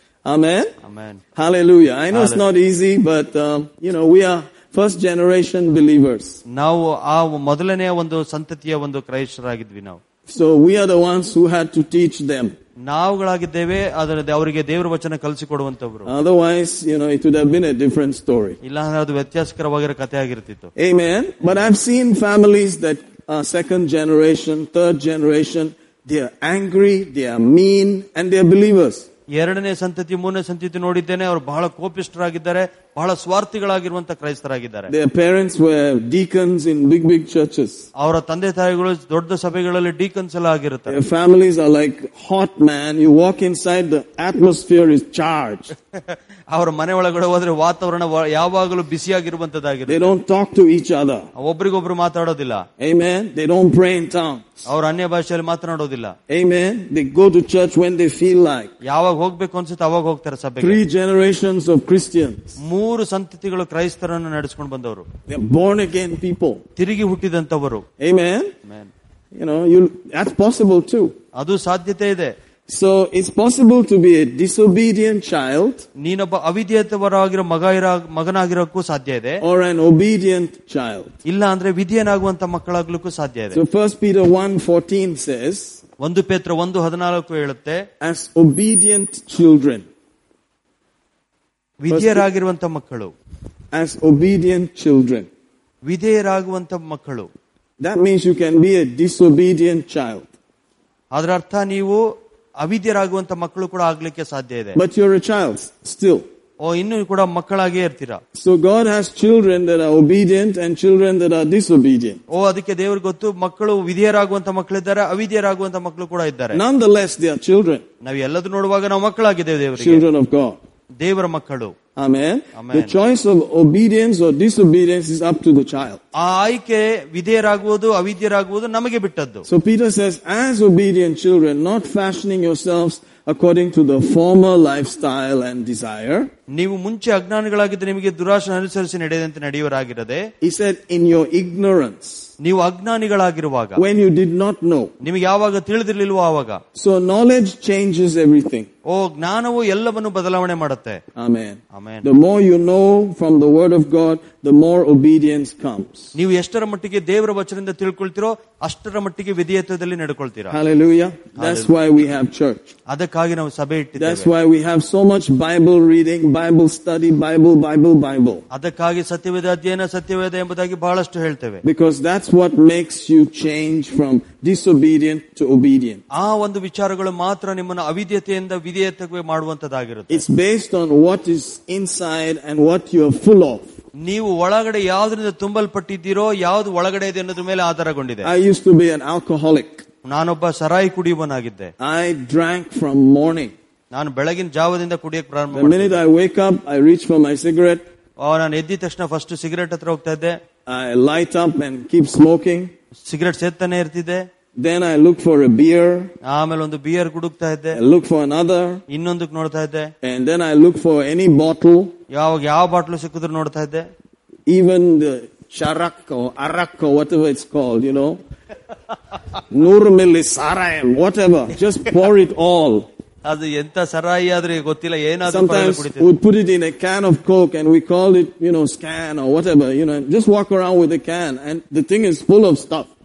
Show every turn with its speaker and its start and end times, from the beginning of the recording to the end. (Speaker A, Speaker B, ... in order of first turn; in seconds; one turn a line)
Speaker A: 0.2-0.7
Speaker B: 0.8-1.2
Speaker A: 1.4-6.4
Speaker B: 2.1-2.4
Speaker B: 6.5-10.0
Speaker A: 10.3-12.5
Speaker B: 12.8-16.1
Speaker A: 16.1-18.6
Speaker B: 18.6-20.7
Speaker A: 20.8-29.1
Speaker B: 29.3-34.9
Speaker A: 34.9-37.9
Speaker B: 38.0-41.0
Speaker A: 40.9-45.7
Speaker B: 45.9-50.1
Speaker A: 49.9-51.3
Speaker B: 51.4-52.7
Speaker A: 52.8-54.7
Speaker B: 54.7-56.1
Speaker A: 56.3-58.7
Speaker B: 58.8-60.8
Speaker A: 60.6-62.6
Speaker B: 62.6-65.1
Speaker A: 65.3-66.6
Speaker B: 66.8-67.8
Speaker A: 68.0-68.5
Speaker B: 68.7-68.9
Speaker A: 69.4-71.1
Speaker B: 71.3-72.3
Speaker A: 72.7-75.9
Speaker B: 76.0-79.4
Speaker A: 79.4-81.2
Speaker B: 81.2-83.6
Speaker A: 83.5-85.8
Speaker B: 86.0-87.8
Speaker A: 88.0-89.9
Speaker B: 91.8-93.1
Speaker A: 91.9-92.3
Speaker A: 93.7-95.3
Speaker B: 95.8-97.3
Speaker A: 97.8-100.3
Speaker B: 101.1-102.0
Speaker B: 102.6-104.8
Speaker A: 104.8-106.2
Speaker B: 106.6-108.2
Speaker A: 108.3-112.2
Speaker B: 112.3-116.6
Speaker A: 116.5-117.8
Speaker B: 118.0-120.0
Speaker A: 119.8-120.6
Speaker B: 121.0-121.8
Speaker A: 122.0-126.0
Speaker B: 122.5-123.0
Speaker B: 126.1-129.5
Speaker A: 129.5-136.3
Speaker B: 136.5-140.3
Speaker A: 140.4-142.3
Speaker B: 142.4-143.8
Speaker A: 143.8-144.9
Speaker B: 145.0-146.6
Speaker A: 146.8-148.7
Speaker B: 148.8-151.0
Speaker A: 151.2-156.1
Speaker B: 151.7-152.1
Speaker B: 156.2-160.6
Speaker A: 160.5-162.7
Speaker B: 161.4-161.7
Speaker B: 162.9-164.3
Speaker A: 164.0-168.4
Speaker B: 168.5-171.6
Speaker A: 171.6-176.0
Speaker B: 176.1-180.2
Speaker A: 180.1-183.7
Speaker B: 184.0-188.3
Speaker A: 188.2-189.8
Speaker B: 190.0-191.7
Speaker A: 191.8-193.5
Speaker B: 193.9-196.0
Speaker A: 195.5-197.8
Speaker B: 198.2-200.4
Speaker A: 200.7-202.7
Speaker B: 203.0-204.3
Speaker A: 204.6-206.1
Speaker B: 206.2-207.8
Speaker A: 207.7-208.8
Speaker B: 208.9-209.9
Speaker A: 210.0-211.9
Speaker B: 212.1-213.9
Speaker A: 214.5-218.2
Speaker A: 219.5-222.9
Speaker B: 223.2-226.1
Speaker A: 225.3-232.9